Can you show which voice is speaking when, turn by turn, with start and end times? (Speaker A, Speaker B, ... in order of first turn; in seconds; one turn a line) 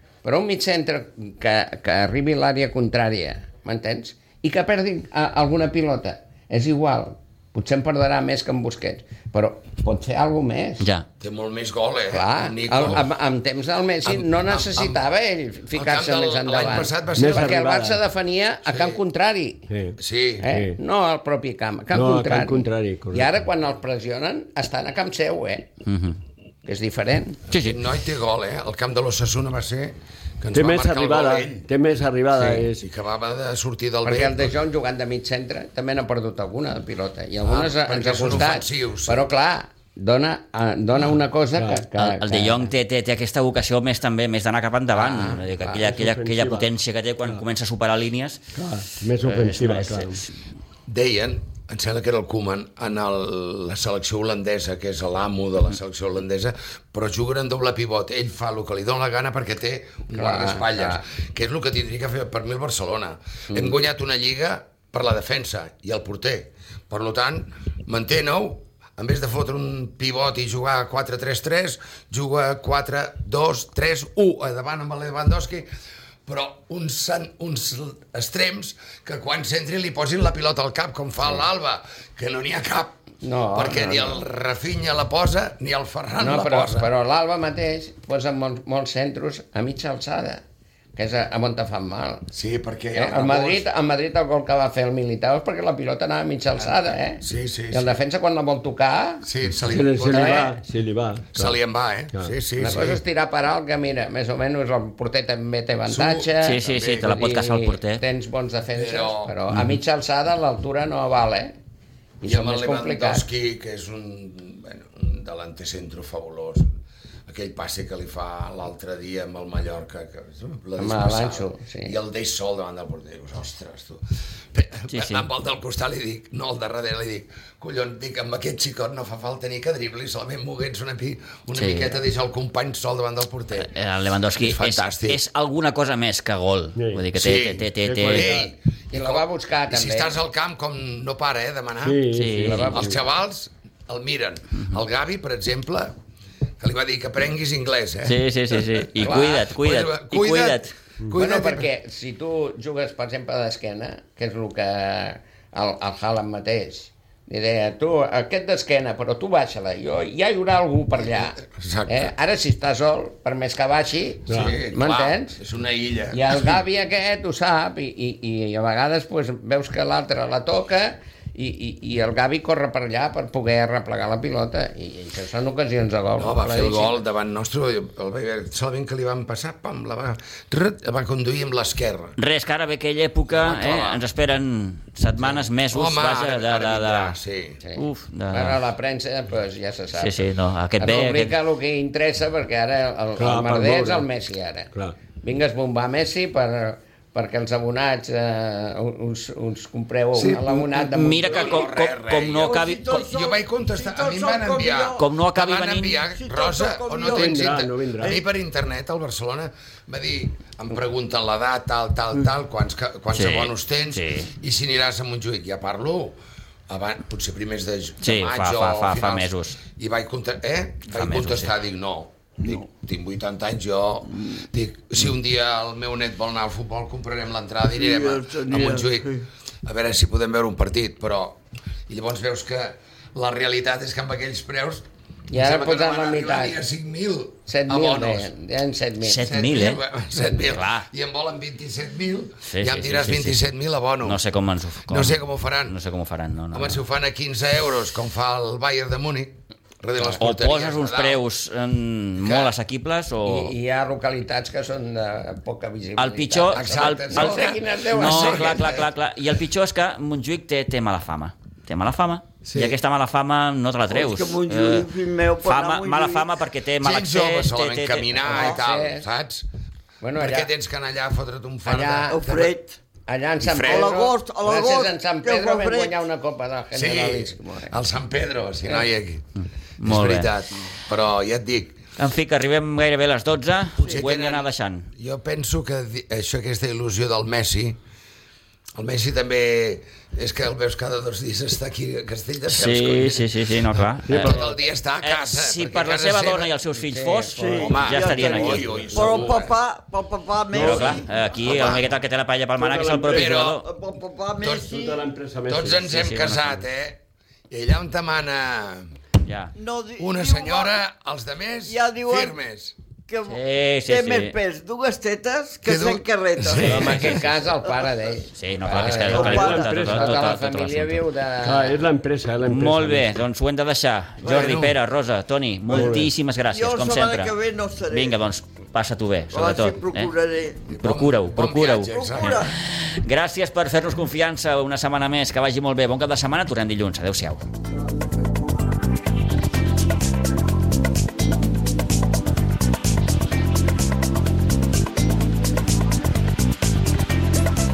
Speaker A: 0.2-10.9
Speaker B: 10.8-11.1
Speaker C: 11.2-13.1
Speaker A: 12.1-19.7
Speaker C: 14.1-15.0
Speaker C: 15.7-17.6
Speaker D: 17.1-18.0
Speaker C: 18.7-19.0
Speaker D: 19.7-20.8
Speaker C: 20.0-20.5
Speaker A: 20.4-25.7
Speaker D: 21.9-23.3
Speaker B: 25.9-26.2
Speaker A: 26.6-27.4
Speaker B: 27.5-27.8
Speaker C: 27.6-31.6
Speaker D: 30.5-32.9
Speaker A: 32.4-32.6
Speaker C: 32.8-34.5
Speaker A: 34.0-42.7
Speaker C: 37.4-39.3
Speaker D: 41.6-41.9
Speaker B: 42.0-48.4
Speaker A: 44.9-45.8
Speaker D: 45.6-46.7
Speaker D: 48.6-50.2
Speaker B: 49.2-50.3
Speaker C: 50.9-75.7
Speaker A: 60.1-61.0
Speaker C: 76.3-83.0
Speaker A: 83.2-84.2
Speaker C: 83.5-86.9
Speaker A: 86.2-90.4
Speaker A: 91.0-92.3
Speaker C: 92.3-93.7
Speaker A: 93.0-99.3
Speaker C: 97.2-97.9
Speaker C: 99.2-100.5
Speaker D: 99.7-101.6
Speaker A: 100.0-100.5
Speaker C: 101.4-103.0
Speaker A: 102.6-111.6
Speaker C: 105.9-107.2
Speaker B: 106.4-108.0
Speaker C: 108.8-109.4
Speaker B: 109.5-109.8
Speaker A: 112.2-113.2
Speaker C: 112.2-116.7
Speaker C: 117.3-133.7
Speaker A: 120.8-122.0
Speaker B: 124.9-125.3
Speaker B: 131.6-131.9
Speaker B: 133.6-138.3
Speaker C: 134.4-135.2
Speaker D: 136.8-137.1
Speaker C: 137.2-142.1
Speaker D: 137.8-138.5
Speaker A: 138.9-140.2
Speaker D: 141.8-143.0
Speaker B: 142.1-142.7
Speaker A: 142.4-142.9
Speaker C: 142.7-145.9
Speaker C: 146.6-151.7
Speaker B: 148.1-150.7
Speaker A: 149.0-149.4
Speaker A: 151.2-165.4
Speaker C: 161.0-162.1
Speaker D: 164.3-164.6
Speaker C: 164.3-166.6
Speaker A: 166.1-177.0
Speaker C: 176.2-182.2
Speaker B: 182.2-187.2
Speaker C: 183.3-184.0
Speaker C: 185.2-187.6
Speaker A: 187.6-190.3
Speaker B: 187.8-188.6
Speaker B: 189.9-191.3
Speaker A: 190.8-194.7
Speaker D: 193.2-194.1
Speaker A: 195.2-201.7
Speaker C: 200.2-229.1
Speaker B: 200.8-203.1
Speaker E: 202.4-205.0
Speaker B: 205.0-206.0
Speaker E: 206.2-208.2
Speaker D: 207.1-208.2
Speaker B: 213.1-214.3
Speaker B: 218.0-219.6
Speaker B: 220.9-221.5
Speaker E: 227.7-229.3
Speaker C: 229.6-238.3
Speaker A: 235.3-236.6
Speaker A: 237.5-239.3
Speaker B: 239.0-239.8
Speaker C: 239.2-244.2
Speaker B: 240.4-240.9
Speaker B: 242.5-243.4
Speaker B: 244.1-246.8
Speaker C: 244.9-245.8
Speaker C: 246.5-251.2
Speaker B: 250.2-253.5
Speaker C: 252.2-252.5
Speaker A: 253.2-258.8
Speaker B: 256.0-268.3
Speaker C: 256.5-258.9
Speaker C: 262.4-262.8
Speaker E: 263.9-266.3
Speaker C: 266.8-269.5
Speaker A: 268.2-269.1
Speaker A: 270.0-270.5
Speaker C: 270.2-272.5
Speaker A: 271.7-272.4
Speaker E: 272.1-272.8
Speaker A: 273.1-277.7
Speaker C: 273.4-274.0
Speaker E: 273.6-276.0
Speaker C: 276.7-279.3
Speaker B: 279.8-280.4
Speaker C: 279.8-281.8
Speaker B: 282.0-284.9
Speaker C: 283.8-287.8
Speaker C: 288.8-293.3
Speaker B: 292.5-294.4
Speaker D: 294.1-294.5
Speaker C: 294.1-296.5
Speaker B: 295.0-299.0
Speaker A: 296.8-297.8
Speaker E: 297.4-301.8
Speaker C: 297.6-299.6
Speaker D: 300.5-301.1
Speaker B: 300.5-303.7
Speaker C: 301.4-301.9
Speaker D: 302.6-303.3
Speaker C: 303.1-303.6
Speaker E: 303.2-305.1
Speaker C: 304.4-304.7
Speaker D: 304.4-306.0
Speaker C: 305.5-308.9
Speaker B: 305.9-306.6
Speaker B: 309.2-309.5
Speaker E: 309.6-310.8
Speaker C: 310.0-312.8
Speaker E: 311.7-312.4
Speaker E: 313.1-317.1
Speaker B: 313.3-314.4
Speaker C: 315.7-317.2
Speaker B: 316.6-317.4
Speaker A: 316.6-321.8
Speaker B: 318.4-321.0
Speaker E: 318.9-319.7
Speaker D: 318.9-320.4
Speaker D: 321.4-323.1
Speaker B: 322.4-327.4
Speaker C: 324.2-324.8
Speaker E: 324.2-324.5
Speaker E: 325.7-328.2
Speaker D: 325.7-326.1
Speaker B: 327.9-330.1
Speaker E: 329.3-330.6
Speaker C: 330.7-332.5
Speaker B: 330.8-337.4
Speaker E: 331.9-332.5